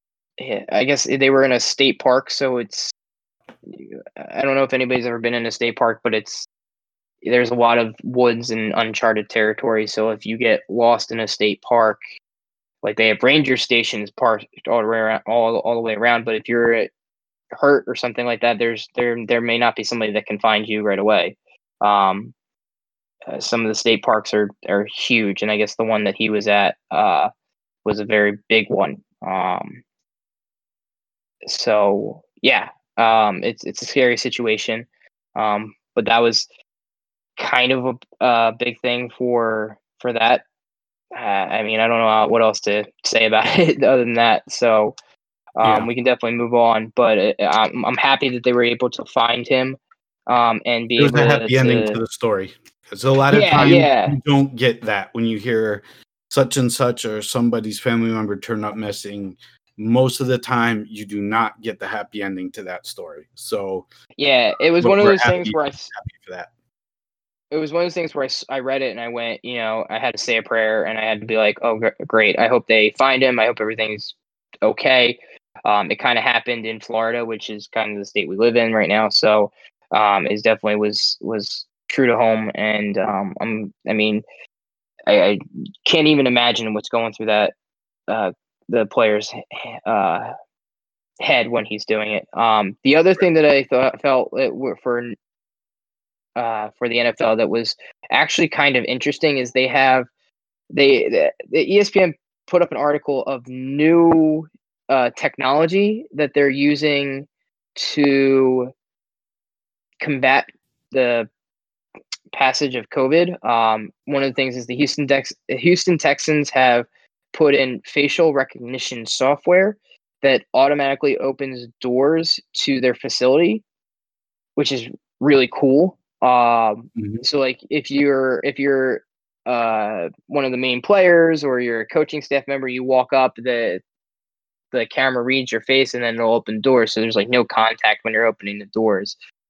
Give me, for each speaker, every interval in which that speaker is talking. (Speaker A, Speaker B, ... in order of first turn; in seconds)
Speaker A: 0.4-2.9, 3.7-6.5, 7.2-12.0, 12.8-16.9, 17.6-22.3, 23.3-27.3, 27.9-29.8, 31.5-36.5, 37.4-40.4, 41.1-44.9, 45.6-52.0, 53.3-54.2, 64.2-65.9, 67.5-84.2, 85.1-87.5, 88.1-90.3, 91.2-95.2, 96.4-100.1, 100.7-108.7, 110.0-111.3, 112.3-123.6, 124.6-133.8, 134.7-139.2
Speaker B: 45.6-45.9, 51.0-63.9, 64.8-66.5, 127.0-127.2